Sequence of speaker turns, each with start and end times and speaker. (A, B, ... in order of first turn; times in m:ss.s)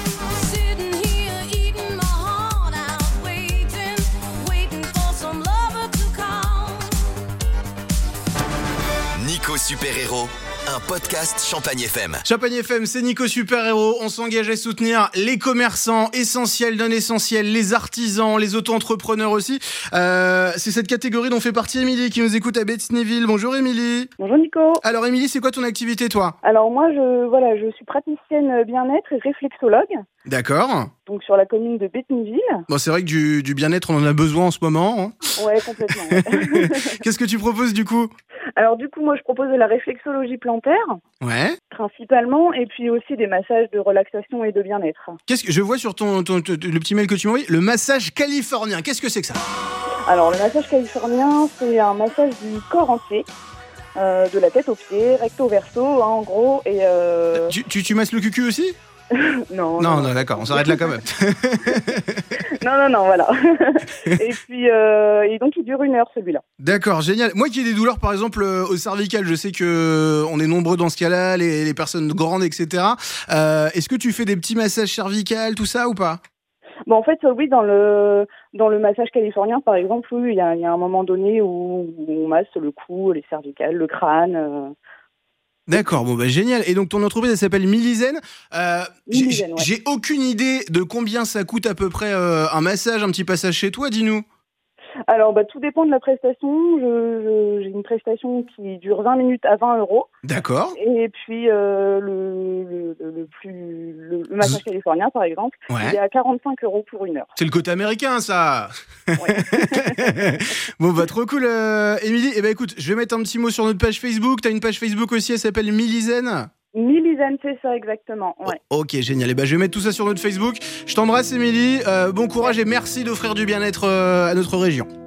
0:00.3-0:07.2 A
0:09.2-0:12.2 B
0:12.2-0:24.1 C
0:24.2-0:24.8 D
0:24.8-0:26.4 C
0:26.4-0:30.0 D
0:30.2-0:30.9 C
0:31.0-0:32.6 D
0:32.7-0:35.2 C
0:35.4-0:37.0 D
0:36.3-0:38.1 C
0:38.6-0:41.0 D
0:41.2-0:41.6 C
0:41.7-0:45.2 D
0:45.3-0:49.4 C
0:50.1-0:53.3 D
0:54.0-0:57.5 D
0:57.3-0:58.7 C
0:59.1-1:01.0 D
0:59.8-1:02.2 C
1:02.5-1:06.4 D
1:06.6-1:16.2 C
1:16.8-1:24.7 D
1:25.7-1:34.2 C
1:29.1-1:29.7 D
1:35.1-1:40.1 D
1:40.2-1:40.7 C
1:40.7-1:47.3 D
1:45.7-1:46.0 C
1:47.4-1:56.5 C
1:49.2-1:50.2 D
1:56.7-1:58.6 D
1:58.4-2:04.9 C